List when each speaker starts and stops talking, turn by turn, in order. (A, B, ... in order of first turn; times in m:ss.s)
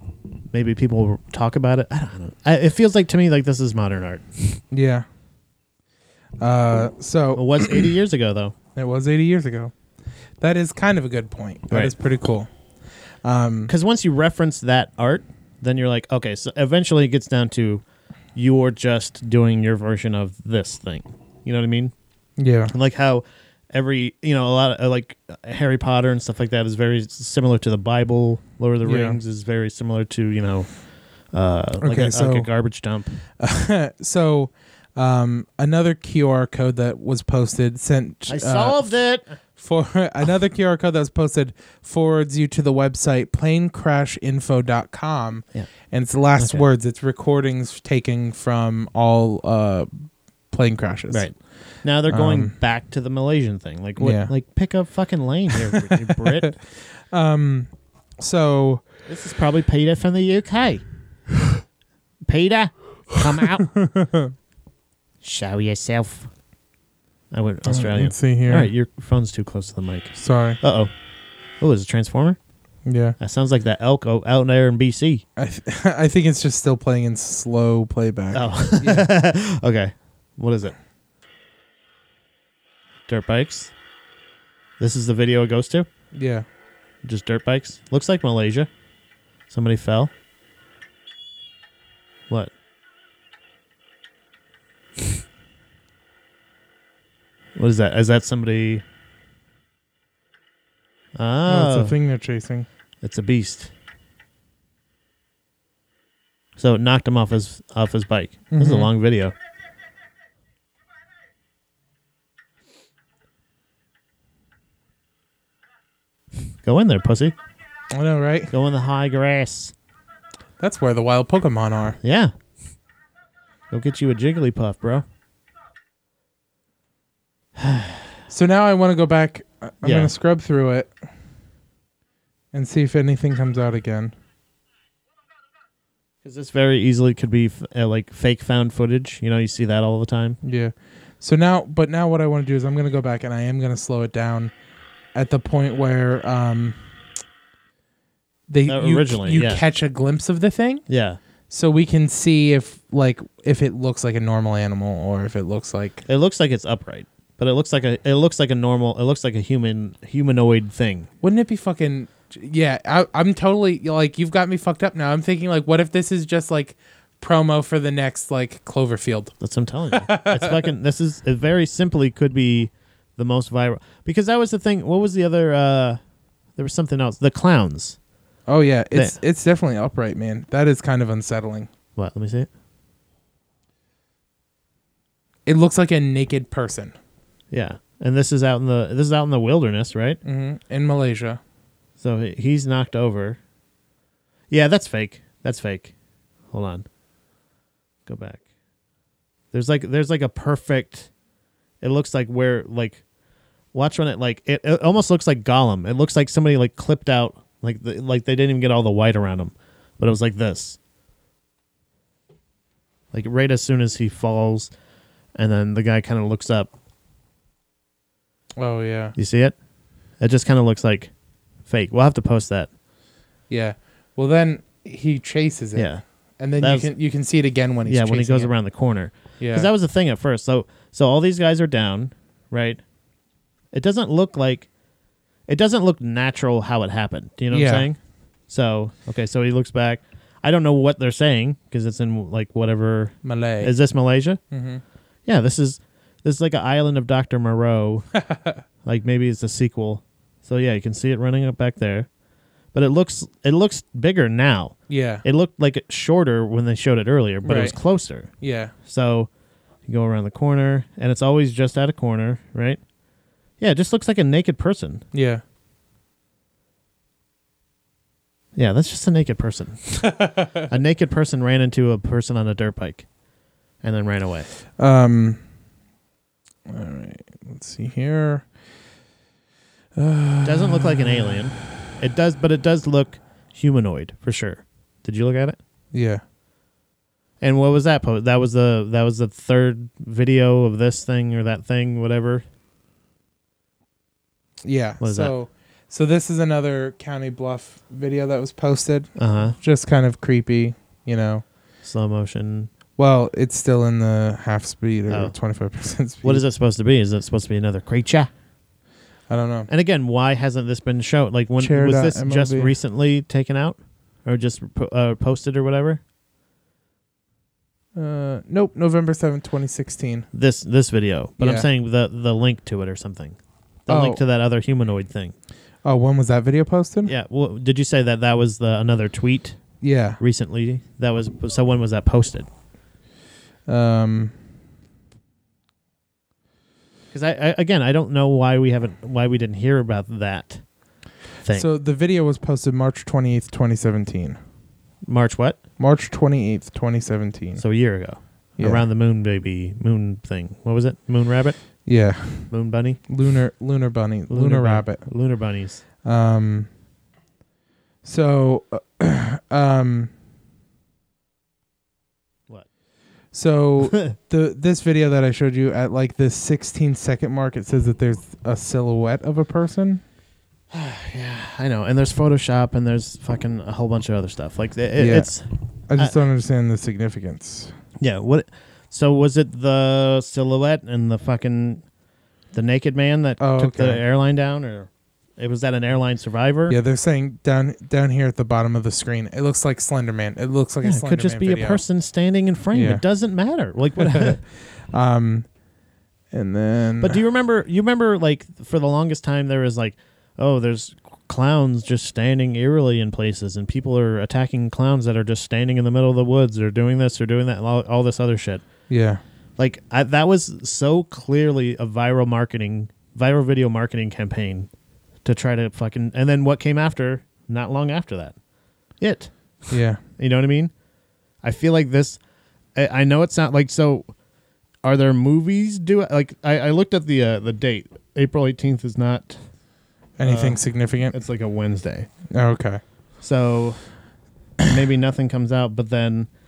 0:00.5-0:04.6 A
0:04.7-0:05.1 B
0:06.4-0:07.9 B
0:07.4-0:08.5 A
0:08.8-0:09.7 B
0:10.4-0:12.5 B
0:11.7-0:12.0 A
0:13.2-0:13.7 B
0:13.7-0:17.8 A
0:18.4-0:21.9 A
0:22.4-0:22.7 B
0:22.7-0:30.7 A
0:28.8-0:29.2 B
0:31.3-0:33.2 A
0:31.8-0:32.5 B
0:33.4-0:38.9 B
0:38.3-0:39.4 A
0:39.6-0:51.3 B
0:46.4-0:46.6 A
0:51.1-0:56.5 A
0:52.1-0:52.5 B
0:54.0-0:54.3 B
0:55.7-0:58.9 B
0:59.1-1:00.8 A
1:02.3-1:03.7 A
1:03.8-1:04.3 B
1:05.2-1:06.3 A
1:07.3-1:10.9 A
1:07.7-1:08.7 B
1:10.2-1:10.6 B
1:11.6-1:12.4 A
1:12.9-1:13.2 B
1:13.2-1:15.2 A
1:15.4-1:19.1 B
1:18.3-1:20.8 A
1:23.1-1:23.7 A
1:24.8-1:25.9 A
1:26.1-1:26.5 B
1:27.0-1:28.7 A
1:29.5-1:30.1 A
1:37.6-1:38.8 A
1:41.2-1:42.0 A
1:41.5-1:42.7 B
1:43.0-1:43.7 A
1:46.6-1:49.3 A
1:48.5-1:48.9 B
1:56.6-1:57.3 A
1:57.9-1:58.5 B
1:58.5-1:59.7 A
2:00.6-2:02.0 B
2:02.0-2:02.3 A
2:03.7-2:05.0 A
2:07.6-2:08.0 A
2:08.3-2:10.9 B
2:09.8-2:10.1 A
2:12.5-2:14.1 B
2:16.2-2:20.4 A
2:20.4-2:24.5 B
2:25.1-2:26.8 B
2:28.5-2:30.9 B
2:28.7-2:29.6 A
2:30.9-2:31.2 A
2:31.5-2:36.0 B
2:36.1-2:41.1 A
2:41.2-2:49.3 B
2:49.4-2:56.0 A
2:49.9-2:50.7 B
2:56.6-2:58.0 A
2:58.5-3:01.7 B
3:02.0-3:02.5 A
3:05.5-3:07.0 B
3:07.5-3:10.2 A
3:10.2-3:11.4 B
3:12.0-3:13.4 A
3:14.5-3:15.9 A
3:16.5-3:16.9 A
3:18.1-3:18.4 A
3:19.5-3:21.1 A
3:21.8-3:23.0 A
3:23.7-3:30.8 A
3:33.1-3:34.7 A
3:35.4-3:36.7 A
3:38.6-3:39.2 B
3:39.2-3:39.6 A
3:40.2-3:41.1 A
3:41.7-3:42.7 A
3:43.5-3:48.5 B
3:45.8-3:46.0 A
3:46.6-3:46.9 A
3:47.9-3:52.8 A
3:49.4-3:49.7 B
3:53.7-3:54.7 A
3:55.5-3:58.0 A
3:57.5-3:57.9 B
3:58.5-4:04.4 A
4:03.2-4:03.8 B
4:04.5-4:04.8 B
4:05.3-4:08.1 A
4:08.2-4:08.6 B
4:08.8-4:12.1 A
4:12.7-4:18.3 A
4:14.9-4:15.2 B
4:17.4-4:17.8 B
4:18.4-4:18.7 B
4:18.8-4:19.3 A
4:19.9-4:22.8 A
4:23.6-4:25.0 A
4:25.1-4:25.4 B
4:28.6-4:33.1 A
4:30.0-4:30.7 B
4:33.8-4:34.5 A
4:34.8-4:35.4 B
4:36.7-4:38.5 B
4:40.0-4:41.4 B
4:40.4-4:45.6 A
4:45.9-4:46.2 B
4:47.4-4:52.4 A
4:54.6-5:01.4 B
4:55.0-4:55.3 A
4:59.2-4:59.6 A
5:01.8-5:02.7 A
5:03.0-5:06.4 B
5:05.1-5:05.3 A
5:06.2-5:08.3 A
5:09.3-5:09.7 B
5:09.7-5:16.0 A
5:11.6-5:12.7 B
5:18.0-5:20.3 B
5:20.3-5:25.4 A
5:21.4-5:21.7 B
5:23.9-5:24.2 B
5:25.8-5:27.1 B
5:27.1-5:29.6 A
5:29.8-5:30.2 B
5:30.2-5:32.5 A
5:33.7-5:34.3 B
5:37.1-5:40.7 A
5:41.5-5:44.4 B
5:45.0-5:45.6 A
5:45.8-5:47.6 B
5:47.6-5:51.6 A
5:48.6-5:48.8 B
5:51.8-5:52.5 B
5:52.5-5:53.0 A
5:53.1-5:55.1 B
5:54.3-5:55.8 A
5:56.0-5:56.7 B
5:58.0-6:00.1 B
6:03.3-6:10.0 B
6:10.7-6:15.4 A
6:15.0-6:15.3 B
6:15.9-6:17.8 B
6:18.0-6:21.8 A
6:22.5-6:26.8 A
6:23.4-6:24.0 B
6:26.7-6:31.8 B
6:30.8-6:34.4 A
6:32.7-6:33.0 B
6:34.0-6:35.5 B
6:36.3-6:37.2 B
6:37.0-6:48.6 A
6:48.9-6:49.2 B
6:49.6-6:54.7 A
6:55.2-6:58.4 A
6:59.0-7:00.7 A
6:59.7-7:00.0 B
7:01.4-7:02.2 A
7:02.8-7:04.1 A
7:04.8-7:09.4 A
7:10.2-7:11.2 B
7:10.2-7:12.1 A
7:12.3-7:12.8 B
7:13.2-7:13.8 A
7:14.7-7:16.3 A